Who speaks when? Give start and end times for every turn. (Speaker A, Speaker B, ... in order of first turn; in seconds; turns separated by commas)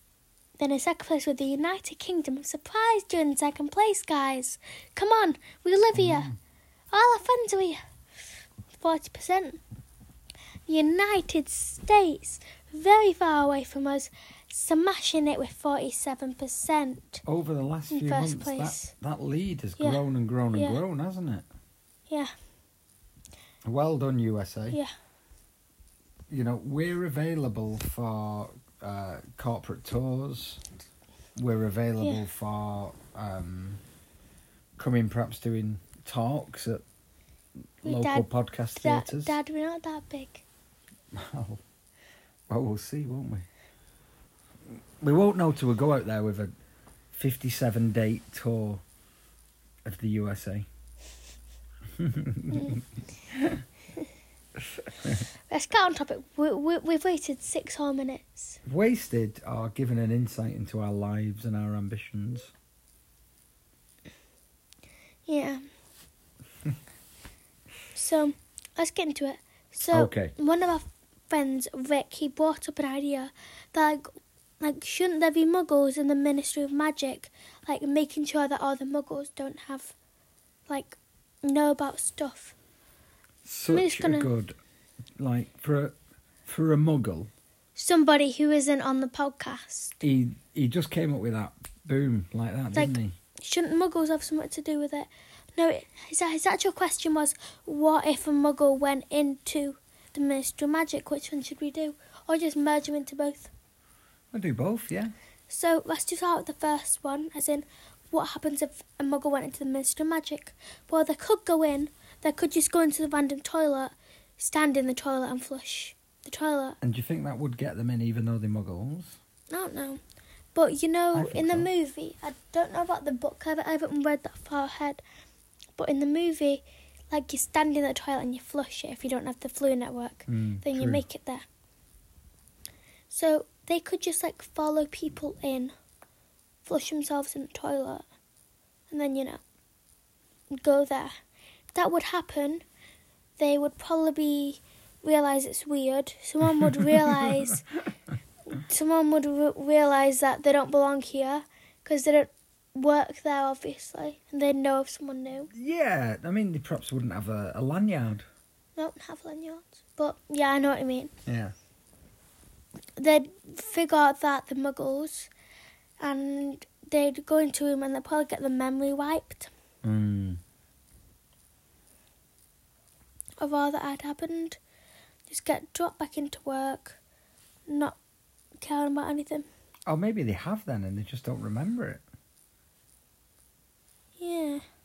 Speaker A: 0.6-6.3, Speaker B: 5.9-6.3, Speaker A: 6.9-7.8, Speaker A: 8.7-9.6, Speaker A: 10.7-17.2, Speaker B: 17.2-21.4, Speaker A: 17.9-18.9, Speaker A: 20.5-20.8, Speaker B: 23.6-24.8, Speaker B: 26.3-30.6, Speaker B: 31.4-33.8, Speaker B: 34.8-36.8, Speaker B: 37.8-39.4, Speaker A: 37.8-40.4, Speaker B: 41.1-41.6, Speaker B: 42.5-43.5, Speaker B: 44.6-46.5, Speaker B: 47.1-48.8, Speaker B: 49.8-50.7, Speaker B: 51.9-53.6, Speaker B: 54.6-55.2, Speaker A: 55.1-58.6, Speaker B: 58.6-62.5, Speaker A: 65.3-65.6, Speaker A: 67.9-74.1, Speaker B: 69.9-70.3, Speaker A: 74.6-79.9, Speaker A: 80.7-82.5, Speaker B: 83.4-84.5, Speaker A: 83.7-84.3, Speaker B: 85.2-85.9, Speaker B: 86.5-87.3, Speaker A: 87.8-90.0, Speaker B: 90.0-93.1, Speaker A: 92.7-103.5, Speaker B: 104.3-105.1, Speaker A: 105.5-116.8, Speaker B: 116.8-119.2, Speaker A: 119.5-120.0, Speaker A: 120.5-125.0, Speaker B: 121.1-121.7, Speaker A: 125.8-131.4, Speaker B: 130.3-131.0, Speaker A: 133.1-135.7, Speaker A: 136.6-138.0, Speaker A: 138.9-139.4, Speaker A: 140.5-141.1, Speaker A: 141.7-142.6, Speaker A: 143.4-147.6, Speaker B: 146.4-147.6, Speaker A: 148.5-155.5, Speaker B: 155.5-158.2, Speaker A: 158.8-161.1, Speaker B: 161.2-161.5, Speaker A: 163.0-165.3, Speaker A: 166.0-169.5, Speaker B: 169.8-170.4, Speaker A: 173.4-174.6, Speaker A: 175.3-177.0, Speaker A: 177.7-178.0, Speaker A: 178.6-179.4, Speaker B: 179.9-182.0, Speaker A: 184.2-184.6